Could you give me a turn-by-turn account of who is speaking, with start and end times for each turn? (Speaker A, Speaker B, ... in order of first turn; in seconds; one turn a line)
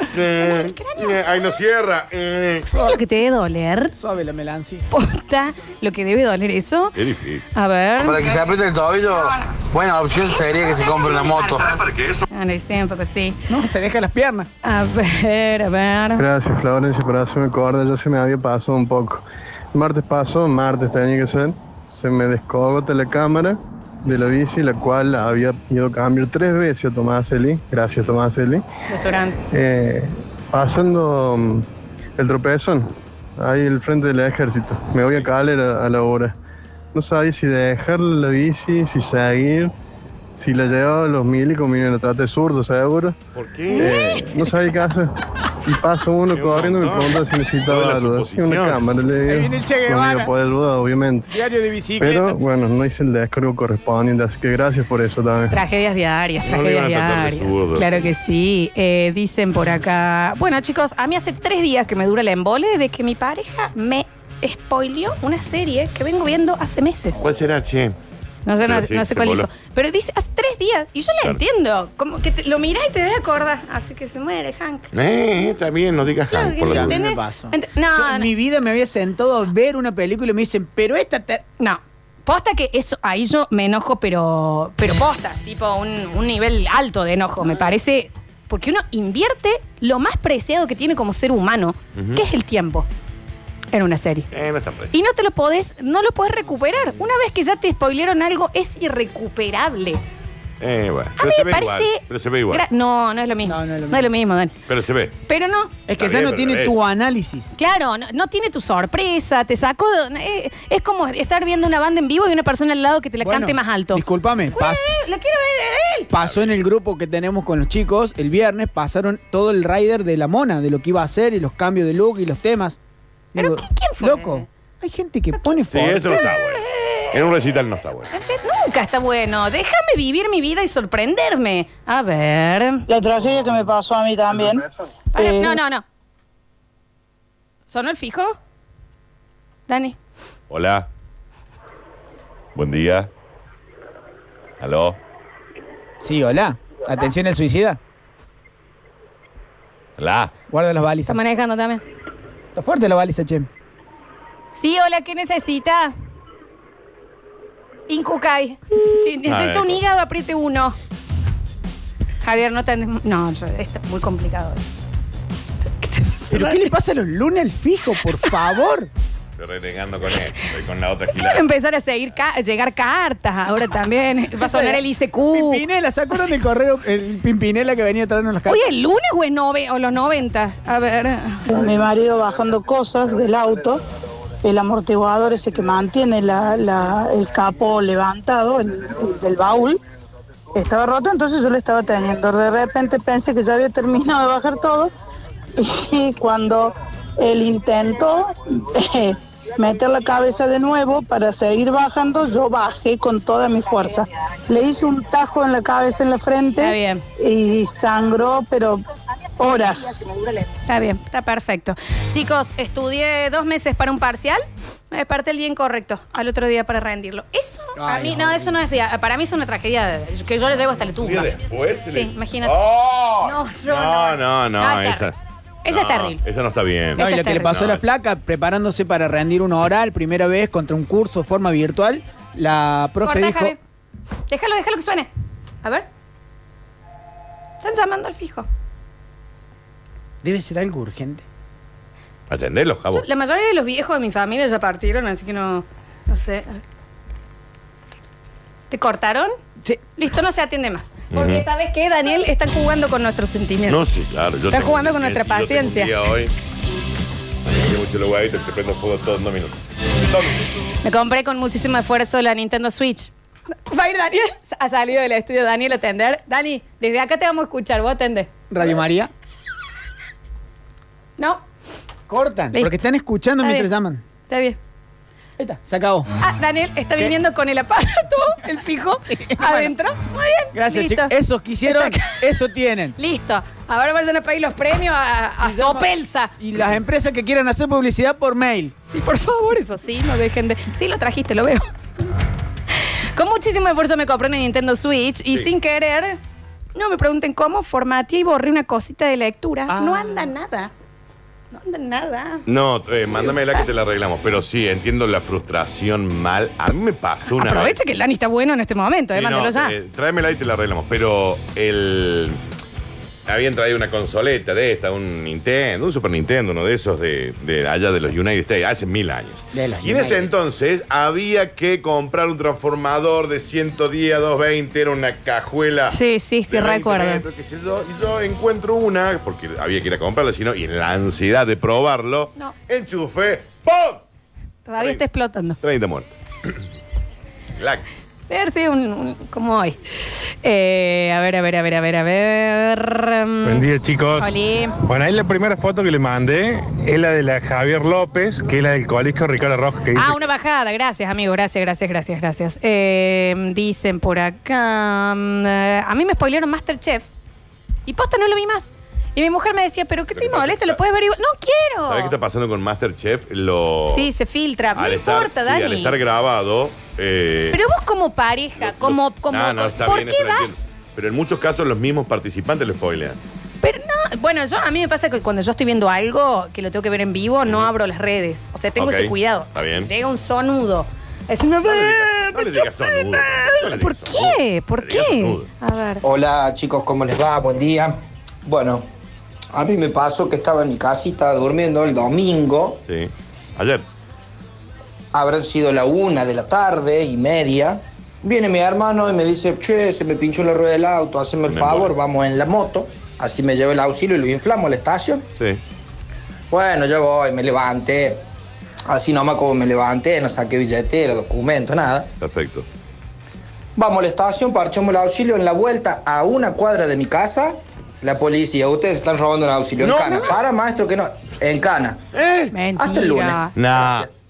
Speaker A: 0.1-2.8
Speaker B: 0.3-1.2
Speaker B: 2.6-3.9
Speaker C: 4.0-4.8
Speaker B: 4.9-7.0
Speaker A: 6.9-7.5
Speaker B: 7.5-8.4
Speaker D: 8.0-11.9
Speaker B: 12.3-13.4
Speaker C: 13.5-14.5
Speaker B: 14.6-16.2
Speaker E: 16.2-28.6
Speaker B: 28.9-29.4
Speaker E: 29.5-31.6
Speaker E: 32.2-32.9
Speaker E: 33.4-36.3
Speaker E: 36.9-39.7
Speaker E: 40.4-43.1
Speaker A: 43.3-43.9
Speaker B: 43.7-44.5
Speaker E: 43.8-45.1
Speaker E: 45.6-51.3
Speaker A: 46.3-48.8
Speaker C: 49.3-50.3
Speaker C: 51.3-52.4
Speaker E: 52.0-55.6
Speaker B: 55.5-67.2
Speaker A: 56.5-58.0
Speaker A: 67.2-68.0
Speaker B: 68.4-74.9
Speaker A: 68.6-69.5
Speaker A: 74.9-77.0
Speaker B: 76.3-78.3
Speaker C: 76.6-81.4
Speaker B: 81.6-92.9
Speaker A: 92.0-92.2
Speaker B: 93.7-94.3
Speaker A: 94.3-95.0
Speaker B: 94.9-100.0
Speaker A: 100.6-102.6
Speaker B: 101.2-104.5
Speaker C: 103.4-104.1
Speaker A: 104.7-105.1
Speaker B: 105.2-105.7
Speaker C: 105.9-107.5
Speaker A: 105.9-106.8
Speaker B: 107.5-116.1
Speaker C: 113.2-114.8
Speaker C: 116.1-122.8
Speaker A: 116.2-116.6
Speaker C: 123.3-126.2
Speaker B: 123.4-124.4
Speaker A: 125.7-128.1
Speaker B: 126.1-127.2
Speaker B: 128.1-132.8
Speaker F: 132.9-134.6
Speaker B: 135.1-135.8
Speaker F: 135.2-135.6
Speaker B: 137.7-138.3
Speaker B: 139.7-140.0
Speaker A: 140.5-140.9
Speaker A: 142.5-143.1
Speaker A: 144.6-145.0
Speaker C: 146.0-147.8
Speaker A: 150.0-150.3
Speaker C: 150.5-151.2
Speaker B: 151.1-151.8
Speaker C: 152.6-153.5
Speaker B: 154.5-155.9
Speaker B: 157.9-160.8
Speaker A: 159.2-159.8
Speaker B: 162.2-164.6
Speaker B: 165.8-166.6
Speaker C: 166.3-168.9
Speaker A: 169.4-171.5
Speaker B: 171.2-175.6
Speaker C: 174.4-178.6
Speaker B: 178.4-181.5
Speaker F: 181.5-183.8
Speaker F: 184.4-189.8
Speaker F: 190.5-194.9
Speaker F: 195.6-208.8
Speaker B: 206.6-207.0
Speaker F: 209.4-210.1
Speaker B: 210.7-221.3
Speaker C: 217.8-218.5
Speaker A: 221.0-225.2
Speaker B: 221.9-222.5
Speaker B: 223.2-225.1
Speaker B: 225.6-226.2
Speaker A: 225.7-227.8
Speaker B: 226.9-227.5
Speaker C: 226.9-233.5
Speaker B: 233.0-233.6
Speaker B: 234.3-235.1
Speaker B: 237.6-238.5
Speaker C: 240.2-241.2
Speaker A: 242.3-243.0
Speaker B: 242.9-246.6
Speaker B: 248.7-249.3
Speaker B: 250.0-253.8
Speaker A: 251.1-251.4
Speaker A: 253.7-256.3
Speaker B: 254.5-255.9
Speaker A: 257.4-260.4
Speaker B: 260.8-263.1
Speaker B: 263.7-268.3
Speaker C: 268.5-269.1
Speaker C: 272.1-274.0
Speaker B: 272.5-272.8
Speaker B: 273.4-273.7
Speaker B: 274.3-274.6
Speaker C: 275.4-276.1
Speaker B: 276.2-281.1
Speaker C: 279.1-279.7
Speaker C: 280.5-282.9
Speaker B: 281.7-282.2
Speaker B: 283.0-286.3
Speaker C: 285.4-288.7
Speaker B: 288.9-291.7
Speaker B: 293.1-296.2
Speaker B: 296.7-300.7
Speaker C: 299.7-300.3
Speaker B: 301.5-302.4
Speaker A: 302.4-307.8
Speaker B: 303.2-303.6
Speaker B: 307.3-309.8
Speaker A: 309.1-312.4
Speaker A: 313.3-326.0
Speaker C: 319.5-320.3
Speaker B: 325.9-327.2
Speaker A: 326.5-334.0
Speaker B: 334.6-335.6
Speaker A: 335.6-336.6
Speaker A: 337.6-337.9
Speaker B: 338.3-339.8
Speaker B: 340.4-344.8
Speaker G: 343.4-344.3
Speaker G: 344.9-350.1
Speaker B: 349.9-357.1
Speaker B: 357.9-362.1
Speaker A: 360.1-360.8
Speaker A: 361.8-364.1
Speaker B: 363.9-366.0
Speaker A: 364.7-367.6
Speaker B: 367.5-370.6
Speaker A: 368.6-373.2
Speaker B: 373.6-386.0
Speaker A: 377.4-377.7
Speaker A: 378.8-379.9
Speaker A: 381.6-385.5
Speaker H: 386.0-388.9
Speaker H: 389.5-392.8
Speaker A: 392.9-393.8
Speaker H: 395.1-405.2
Speaker A: 401.5-401.9
Speaker H: 406.5-408.2
Speaker H: 408.9-412.1
Speaker A: 412.2-412.6
Speaker H: 413.8-422.0
Speaker A: 419.8-420.4
Speaker A: 422.1-422.5
Speaker B: 422.5-423.5
Speaker H: 422.8-424.1
Speaker A: 423.5-424.1